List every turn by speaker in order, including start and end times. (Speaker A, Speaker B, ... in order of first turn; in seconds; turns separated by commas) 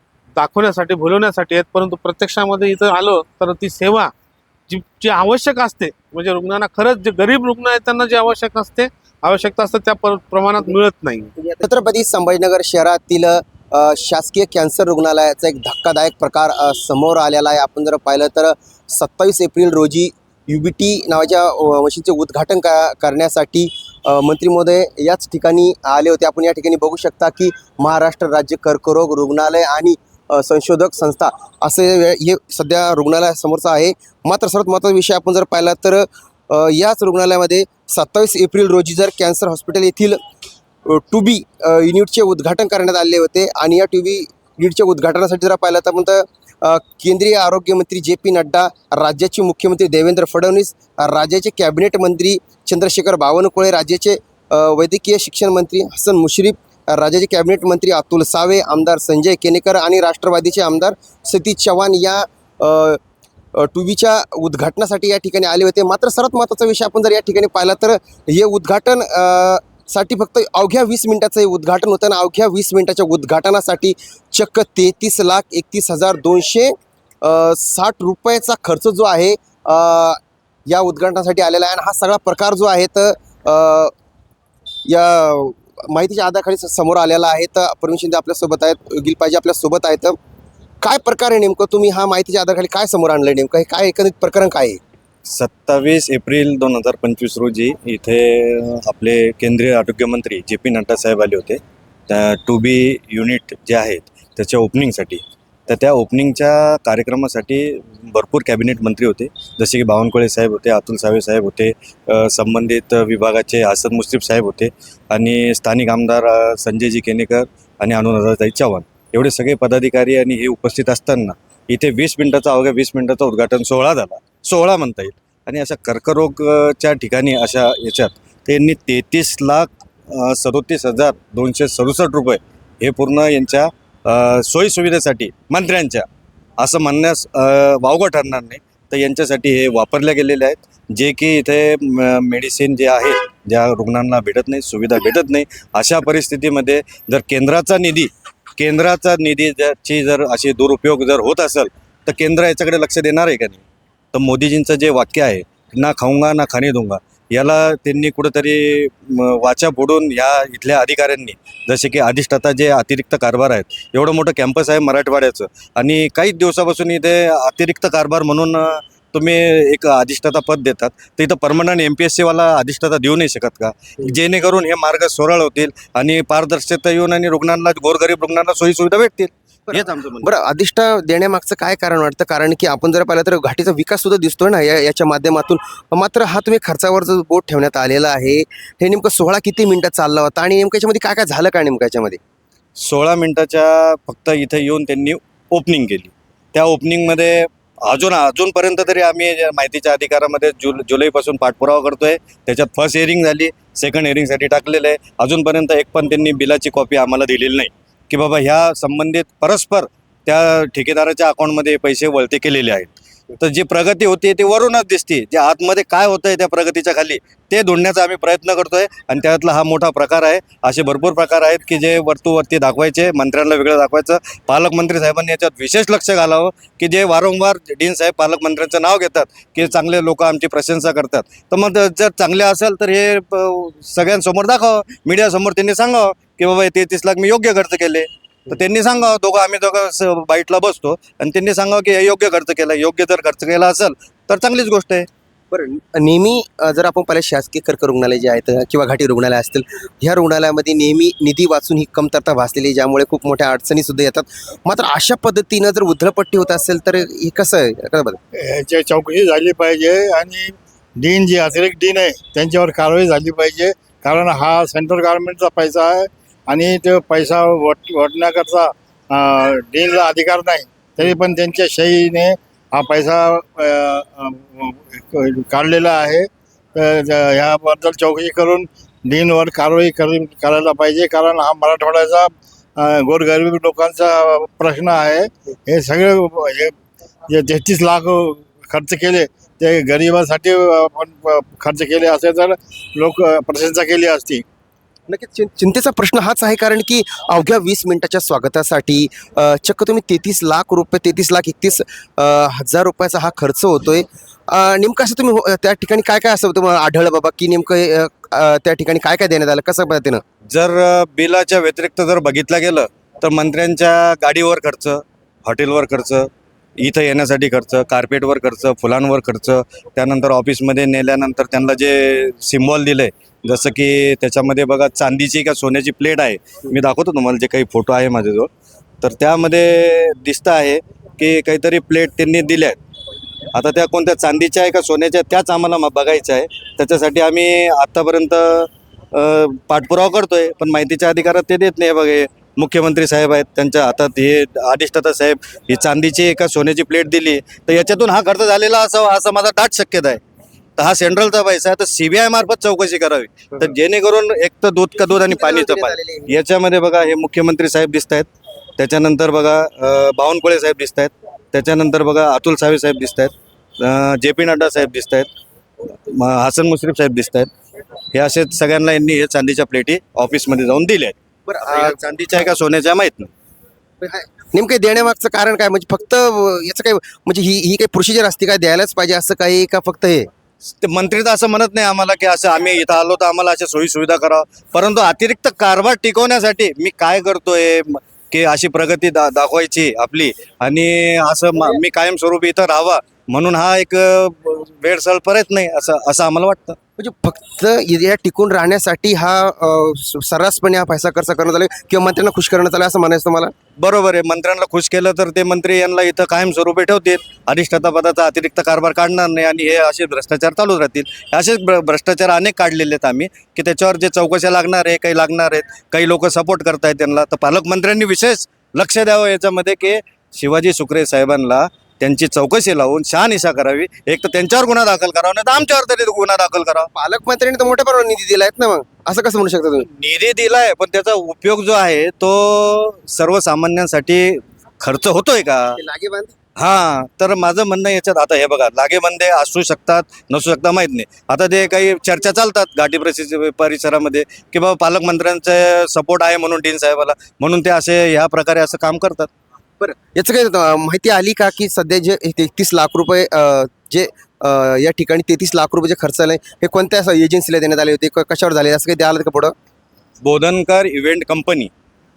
Speaker A: 0.3-4.1, Speaker A: 4.7-11.3, Speaker B: 11.4-40.2, Speaker B: 40.8-63.0, Speaker B: 63.5-83.9, Speaker B: 84.8-90.2, Speaker B: 90.8-94.8, Speaker C: 95.2-136.1, Speaker C: 136.6-153.6, Speaker C: 154.1-180.3, Speaker B: 179.7-192.2, Speaker C: 192.8-245.1, Speaker B: 245.5-258.2, Speaker D: 258.3-286.7, Speaker D: 287.3-294.4, Speaker B: 295.1-310.2, Speaker C: 310.5-328.5, Speaker C: 329.0-332.8, Speaker C: 333.5-350.2, Speaker C: 350.8-365.3, Speaker B: 355.1-356.3, Speaker C: 366.1-367.5, Speaker C: 368.1-373.3, Speaker B: 371.4-372.5, Speaker B: 374.0-380.3, Speaker C: 380.7-396.8, Speaker B: 397.0-403.5, Speaker C: 403.8-426.9, Speaker B: 426.9-429.9, Speaker C: 429.9-435.8, Speaker B: 435.8-436.3, Speaker C: 436.6-449.3, Speaker B: 449.8-459.5, Speaker C: 460.2-461.7